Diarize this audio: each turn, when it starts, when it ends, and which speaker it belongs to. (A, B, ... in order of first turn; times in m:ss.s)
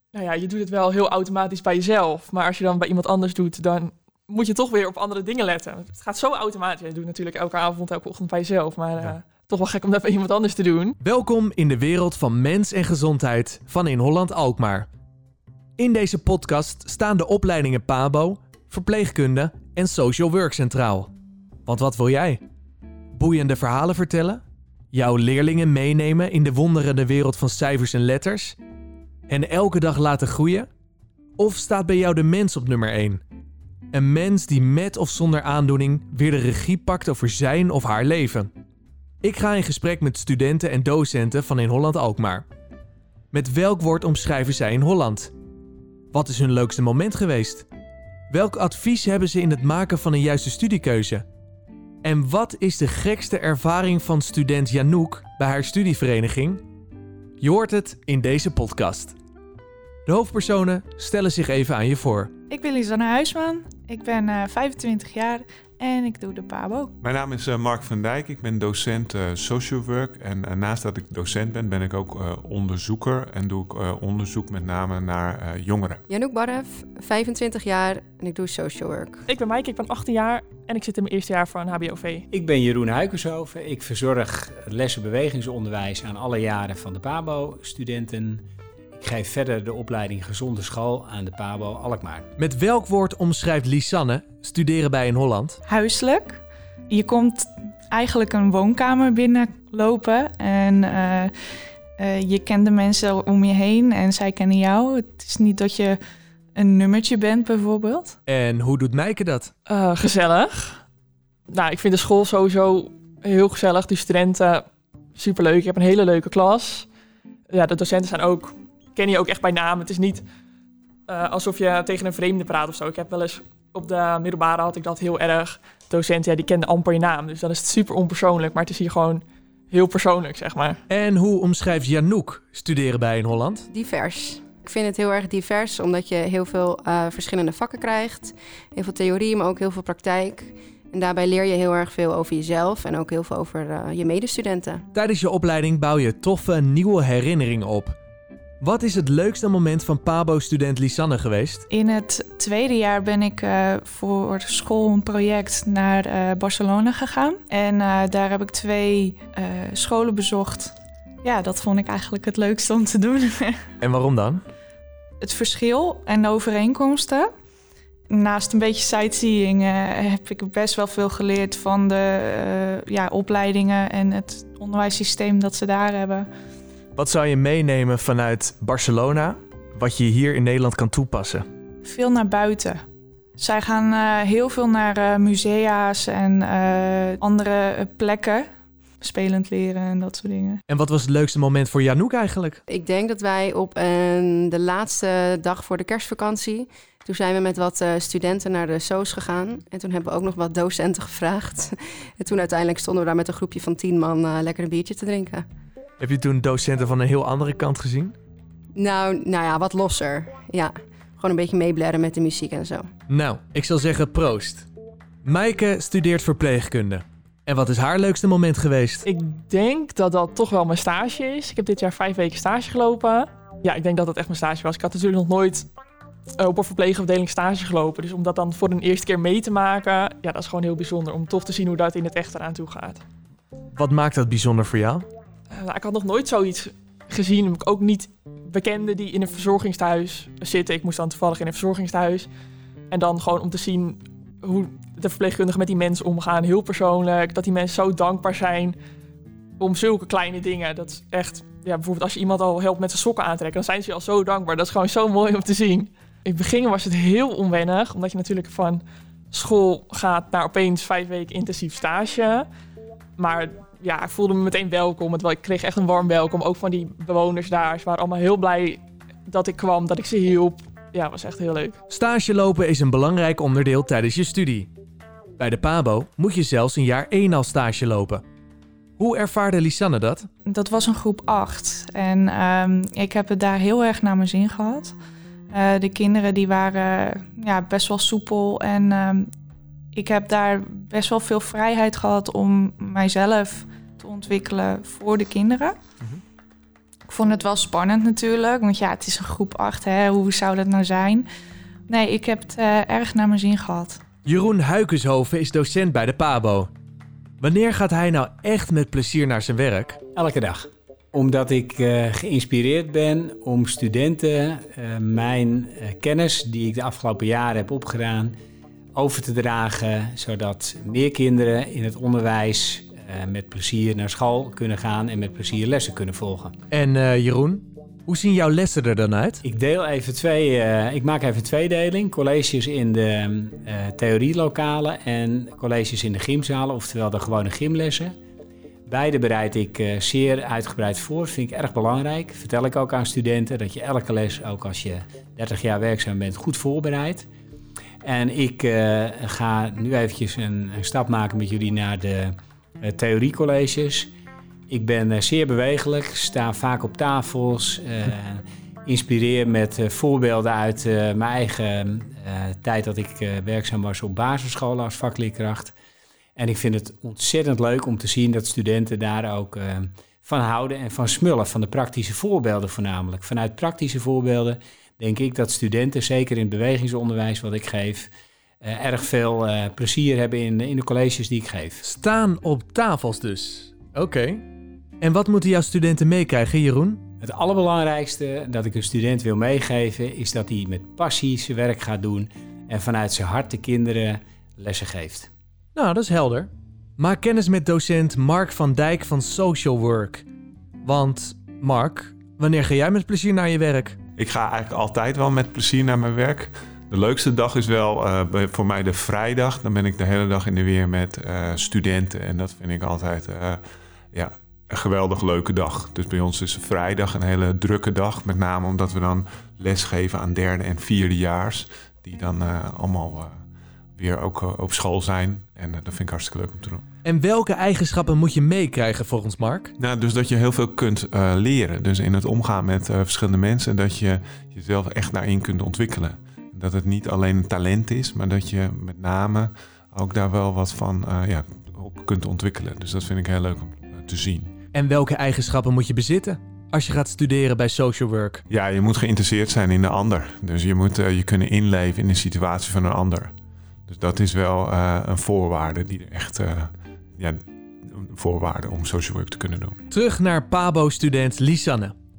0:00.1-0:11.0 A
0:11.0-0:14.9 B
0:15.8-0:21.1 B
0:21.6-0:22.4 B
0:23.1-0:28.6 B
0:29.3-0:30.7 B
0:31.4-0:33.2 B
0:33.9-0:38.5 B
0:39.2-0:42.4 B
0:43.3-0:45.3 B
0:46.1-0:47.6 B
0:48.3-0:51.2 B
0:52.0-0:56.6 B
0:57.4-0:59.2 B
1:00.0-1:02.3 B
1:02.5-1:06.9 C
1:07.0-1:16.0 D
1:16.1-1:19.2 E
1:19.3-1:22.2 A
1:22.3-1:32.3 F
1:32.4-1:35.6 B
1:35.6-1:41.3 C
1:42.0-1:46.0 C
1:46.6-1:48.2 C
1:48.2-1:49.5 B
1:49.7-1:50.8 A
1:51.5-1:56.9 A
1:57.5-2:00.2 A
2:01.1-2:10.8 A
2:10.9-2:13.6 B
2:13.7-2:24.8 E
2:24.9-2:28.0 B
2:28.6-2:31.6 B
2:31.7-2:43.6 C
2:43.8-2:44.4 B
2:45.2-2:47.3 C
2:48.1-2:56.3 C
2:57.0-3:01.4 B
3:01.8-3:02.8 C
3:03.4-3:08.4 C
3:09.0-3:10.6 C
3:10.7-3:12.6 B
3:12.7-3:25.4 E
3:26.0-3:28.1 B
3:28.7-3:32.9 E
3:33.1-3:34.7 B
3:35.2-3:39.1 B
3:39.0-3:45.7 A
3:46.4-3:53.0 A
3:53.8-3:55.1 B
3:55.5-4:02.3 A
4:02.9-4:08.8 A
4:09.6-4:22.5 A
4:23.2-4:31.8 A
4:31.9-4:34.7 B
4:35.4-4:38.2 B
4:39.0-4:40.3 B
4:40.4-4:44.9 C
4:45.5-4:49.3 C
4:49.9-4:55.8 C
4:57.1-5:01.3 C
5:01.9-5:04.0 C
5:04.2-5:06.7 B
5:07.4-5:10.0 B
5:10.1-5:18.4 F
5:18.9-5:26.5 F
5:26.7-5:29.4 B
5:29.4-5:38.1 F
5:38.9-5:47.3 F
5:48.0-5:54.1 F
5:54.7-6:05.7 F
6:06.4-6:18.1 F
6:18.6-6:21.8 F
6:21.8-6:24.4 B
6:25.0-6:27.0 B
6:27.2-6:35.3 F
6:35.8-6:40.2 B
6:40.8-6:44.0 B
6:44.2-6:53.6 D
6:54.1-7:03.3 D
7:04.0-7:06.8 D
7:07.0-7:09.7 B
7:09.8-7:24.5 D
7:24.7-7:28.4 B
7:28.5-7:33.3 D
7:33.9-7:37.4 D
7:37.9-7:39.7 D
7:39.9-7:41.9 B